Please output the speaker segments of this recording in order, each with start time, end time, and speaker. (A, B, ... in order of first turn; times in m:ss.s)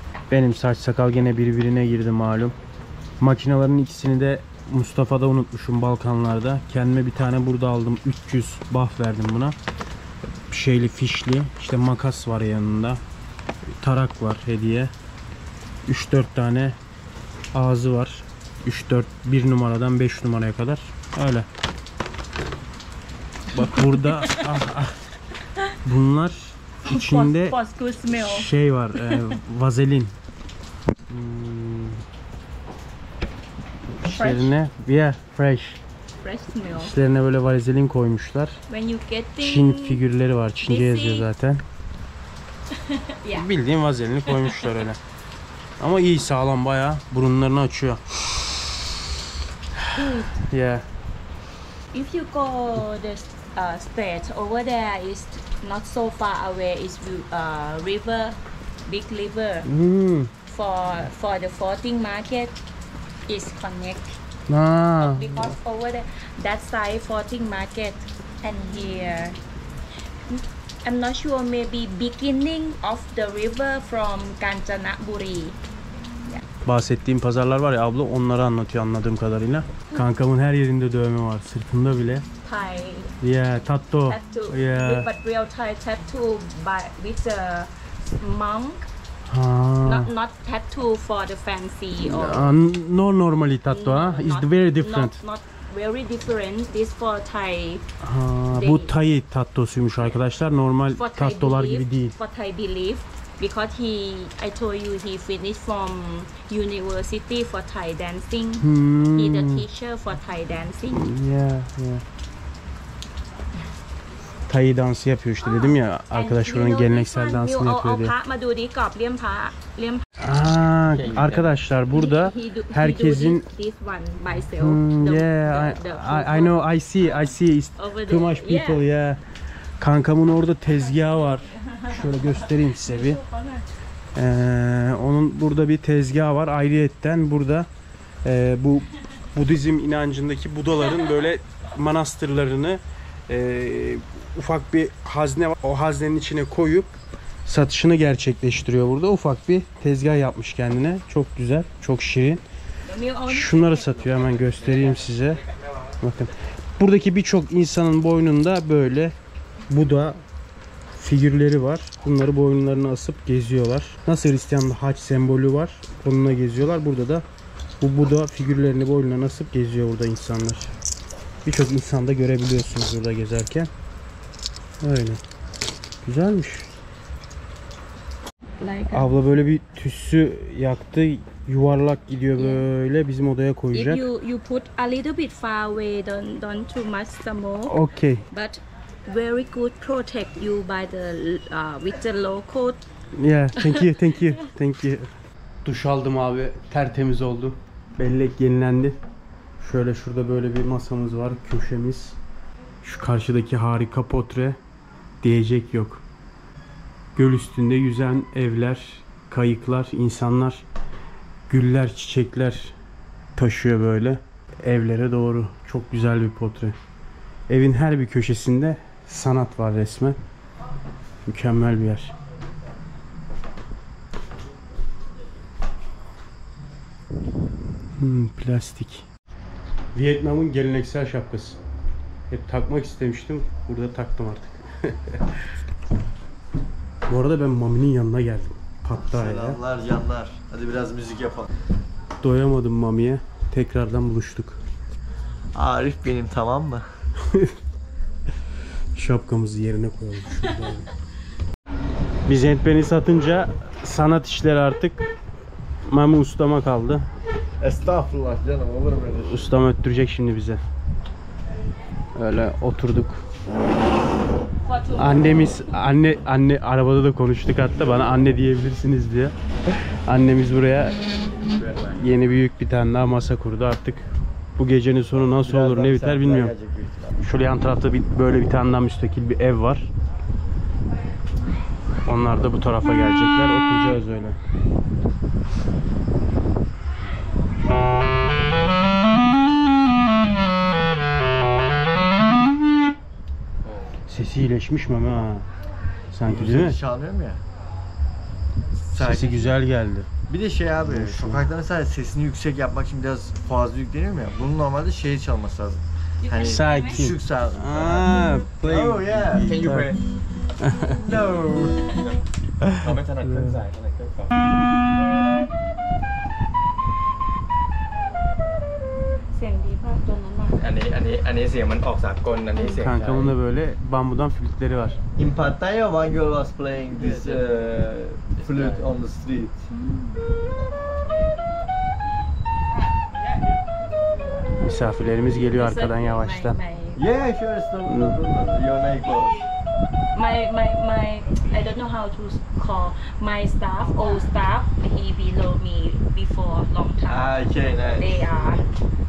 0:00.3-0:02.5 A
0:03.2-0:09.6 A
0:10.5-0:13.0 A
0:13.8-0:14.9 A
0:15.8-0:16.8 A
0:17.5-0:21.5 A
0:23.5-0:25.0 A
0:23.8-0:24.5 B
0:25.8-0:27.6 A
0:26.8-0:28.5 B
0:28.1-0:30.2 A
0:31.1-0:32.0 A
0:34.0-0:35.8 A
0:34.0-0:34.5 B
0:36.2-0:36.9 B
0:36.8-0:38.6 A
0:38.7-0:40.0 B
0:39.4-0:41.6 A
0:40.6-0:41.3 B
0:42.7-0:43.5 B
0:43.3-0:45.0 A
0:44.3-0:44.6 B
0:45.8-0:48.7 A
0:49.8-0:50.8 A
0:49.9-0:50.3 B
0:51.9-0:59.7 B
0:59.6-1:00.3 A
1:00.5-1:02.6 B
1:03.3-1:04.2 B
1:04.5-1:05.5 A
1:05.0-1:09.4 B
1:10.3-1:15.6 B
1:16.6-1:22.2 A
1:22.4-1:23.1 B
1:23.2-1:25.1 A
1:24.1-1:27.7 B
1:28.2-1:28.9 B
1:29.3-1:30.1 A
1:29.8-1:32.5 B
1:32.0-1:35.2 A
1:33.7-1:37.8 B
1:38.0-1:42.2 A
1:38.5-1:38.9 B
1:40.9-1:51.1 B
1:48.6-1:49.6 A
1:50.9-1:52.0 A
1:54.5-1:58.1 A
1:55.4-2:00.0 B
2:00.2-2:03.5 A
2:00.9-2:01.5 C
2:01.9-2:08.8 B
2:04.6-2:09.2 A
2:09.8-2:13.2 A
2:11.5-2:13.7 B
2:14.1-2:17.7 A
2:18.2-2:32.4 A
2:32.9-2:34.6 B
2:33.3-2:35.4 A
2:34.6-2:35.0 C
2:36.0-2:39.1 A
2:39.7-2:40.2 A
2:41.0-2:47.2 A
2:47.8-2:50.7 A
2:51.4-2:53.7 A
2:54.8-2:55.2 A
2:56.0-2:56.7 A
2:58.6-2:59.1 B
2:58.9-3:04.0 A
3:02.4-3:02.6 B
3:03.7-3:07.8 B
3:07.7-3:08.2 A
3:08.3-3:12.8 B
3:13.2-3:15.1 A
3:13.6-3:14.3 B
3:15.6-3:19.0 A
3:19.6-3:22.2 A
3:22.8-3:24.6 A
3:25.2-3:26.0 A
3:27.1-3:30.6 A
3:31.5-3:32.7 A
3:33.4-3:36.8 A
3:37.5-3:40.2 A
3:41.2-3:42.1 A
3:48.0-3:49.0 A
3:49.9-3:51.6 A
3:52.3-3:55.4 A
3:57.1-3:59.6 A
3:59.0-4:01.5 D
4:02.2-4:04.6 A
4:05.5-4:06.8 D
4:07.3-4:07.5 A
4:09.0-4:10.9 A
4:12.3-4:15.0 A
4:15.9-4:17.1 A
4:17.6-4:19.4 D
4:19.2-4:20.6 A
4:22.1-4:23.2 A
4:24.6-4:25.8 B
4:24.9-4:29.3 A
4:27.8-4:28.2 D
4:30.0-4:31.0 A
4:31.9-4:36.5 A
4:35.2-4:37.2 D
4:37.2-4:39.9 A
4:42.0-4:44.4 A
4:54.1-4:55.5 A
4:56.1-4:56.8 A
4:56.2-4:57.4 D
4:58.9-4:59.6 D
4:58.9-5:00.1 A
5:00.3-5:09.6 D
5:00.8-5:01.5 A
5:06.2-5:07.1 B
5:06.4-5:09.9 A
5:09.4-5:10.0 C
5:10.6-5:11.0 A
5:11.0-5:11.8 D
5:12.6-5:13.6 A
5:12.8-5:14.4 C
5:19.3-5:20.6 B
5:20.6-5:23.3 C
5:22.6-5:25.0 A
5:25.2-5:29.6 D
5:27.0-5:27.4 C
5:28.4-5:28.9 C
5:29.7-5:30.2 B
5:34.6-5:36.6 A
5:35.5-5:37.0 B
5:37.0-5:39.4 D
5:37.9-5:38.2 A
5:40.1-5:48.6 B
5:47.1-5:48.2 D